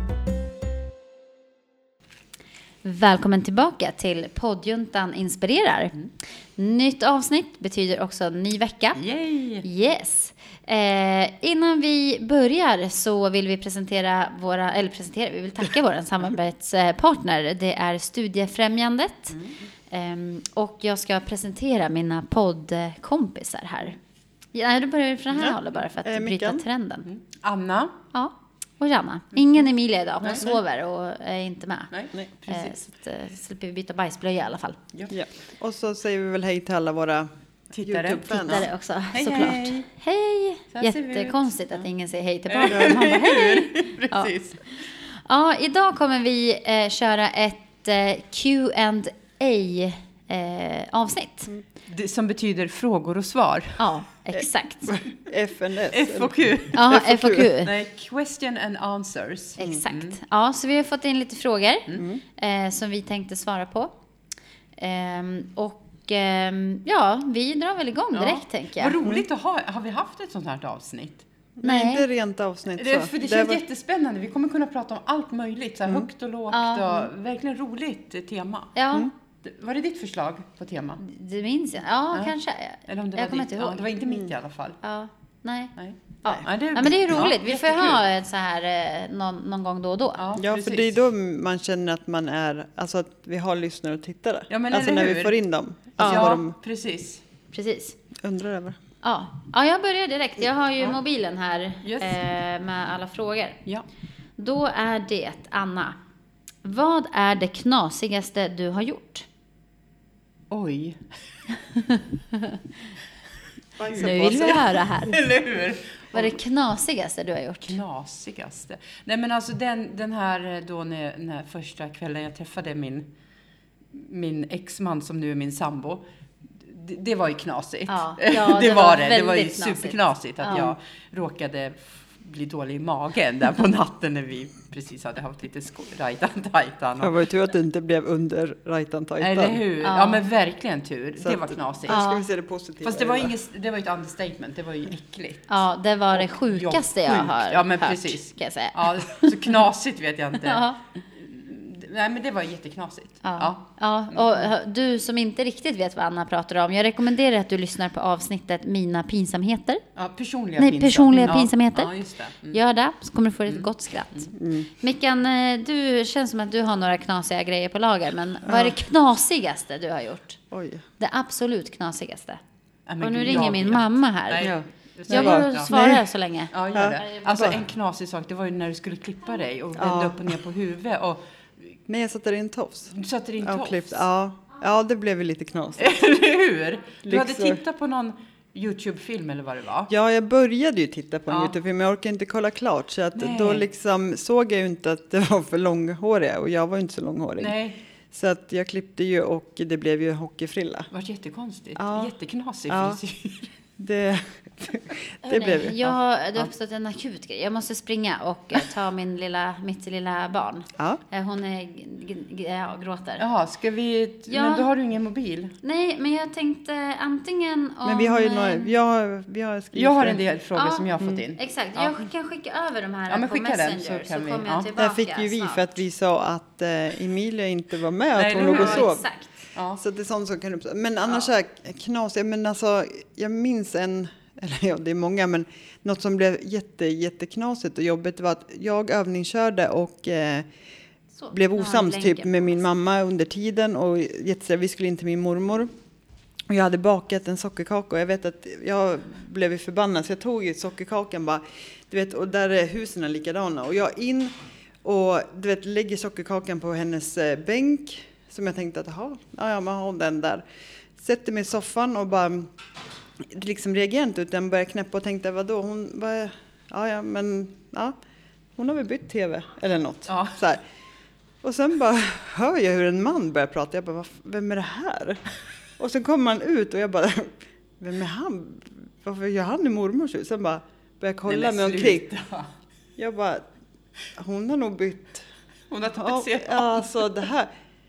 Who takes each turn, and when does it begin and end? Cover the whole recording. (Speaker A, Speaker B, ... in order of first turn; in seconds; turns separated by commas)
Speaker A: 2.8-5.9, Speaker A: 6.6-9.0, Speaker B: 8.9-9.7, Speaker A: 9.6-19.4, Speaker B: 19.3-19.6, Speaker A: 19.9-24.0, Speaker A: 24.5-27.1, Speaker C: 25.4-26.6, Speaker B: 27.0-28.0, Speaker A: 28.1-31.9, Speaker B: 30.2-30.5, Speaker B: 31.9-32.8, Speaker A: 32.5-34.8, Speaker C: 35.1-37.3, Speaker B: 37.7-38.6, Speaker C: 37.8-38.7, Speaker A: 38.3-44.3, Speaker B: 39.1-39.9, Speaker B: 40.7-41.8, Speaker B: 42.5-44.6, Speaker C: 42.7-43.0, Speaker A: 45.2-51.5, Speaker B: 51.9-53.8, Speaker A: 53.8-55.0, Speaker C: 54.3-56.3, Speaker B: 55.9-57.0, Speaker A: 56.7-57.7, Speaker C: 56.9-57.5, Speaker B: 57.6-60.2, Speaker A: 59.6-63.9, Speaker A: 64.8-69.0, Speaker B: 68.1-71.2, Speaker C: 71.6-73.6, Speaker A: 71.6-72.0, Speaker B: 72.7-78.7, Speaker A: 76.5-77.1, Speaker A: 78.8-79.1, Speaker B: 79.4-81.0, Speaker A: 81.0-83.9, Speaker B: 82.9-84.8, Speaker A: 84.8-85.7, Speaker B: 85.8-88.0, Speaker A: 86.2-90.2, Speaker B: 90.2-91.0, Speaker C: 90.4-96.5, Speaker B: 94.5-95.4, Speaker A: 96.0-96.4, Speaker B: 96.0-97.2, Speaker A: 97.5-98.0, Speaker C: 98.2-98.8, Speaker A: 99.0-103.6, Speaker B: 101.8-102.2, Speaker A: 104.4-106.0, Speaker A: 106.6-109.2, Speaker B: 110.5-111.1, Speaker A: 111.8-112.6, Speaker C: 113.8-114.7, Speaker A: 113.9-115.2, Speaker B: 113.9-116.4, Speaker A: 116.1-117.8, Speaker B: 117.6-123.1, Speaker B: 123.9-126.0, Speaker B: 126.5-137.2, Speaker A: 127.9-130.7, Speaker C: 137.0-139.6, Speaker B: 139.2-142.0, Speaker A: 139.8-140.2, Speaker C: 141.2-143.3, Speaker A: 141.9-142.2, Speaker B: 142.8-154.5, Speaker A: 145.5-149.6, Speaker A: 150.4-150.8, Speaker A: 153.2-159.8, Speaker B: 160.0-162.6, Speaker A: 160.6-162.0, Speaker A: 162.5-170.4, Speaker B: 163.5-164.3, Speaker C: 164.4-164.7, Speaker C: 168.4-168.8, Speaker C: 170.5-170.8, Speaker A: 171.0-172.4, Speaker B: 172.9-175.7, Speaker A: 173.0-174.5, Speaker C: 174.4-176.1, Speaker A: 175.1-177.2, Speaker B: 176.5-181.8, Speaker C: 176.7-177.6, Speaker C: 179.8-180.3, Speaker C: 181.9-185.9, Speaker B: 182.9-184.0, Speaker B: 185.8-189.9, Speaker C: 187.0-187.6, Speaker C: 189.9-197.6, Speaker B: 191.3-191.5, Speaker B: 193.2-193.7, Speaker B: 197.4-197.8, Speaker C: 198.1-200.9, Speaker B: 200.9-203.5, Speaker C: 201.8-202.1, Speaker C: 202.7-203.0, Speaker C: 203.8-206.0, Speaker A: 205.2-213.2, Speaker B: 213.2-215.5, Speaker A: 214.3-214.7, Speaker A: 215.6-218.7, Speaker C: 217.8-220.2, Speaker B: 219.7-221.9, Speaker A: 220.6-225.7, Speaker B: 223.1-224.7, Speaker C: 224.8-229.1, Speaker B: 228.2-228.9, Speaker A: 228.4-229.3, Speaker B: 229.5-229.8, Speaker C: 229.8-240.5, Speaker A: 241.2-242.6, Speaker C: 241.3-245.7, Speaker C: 246.5-260.4, Speaker C: 260.9-262.5, Speaker C: 263.2-267.9, Speaker C: 268.6-270.6, Speaker B: 270.1-270.4, Speaker C: 271.4-275.2, Speaker C: 275.8-282.1, Speaker B: 281.3-282.5, Speaker C: 283.0-283.5, Speaker C: 284.1-285.2, Speaker B: 285.7-287.1, Speaker C: 285.9-287.5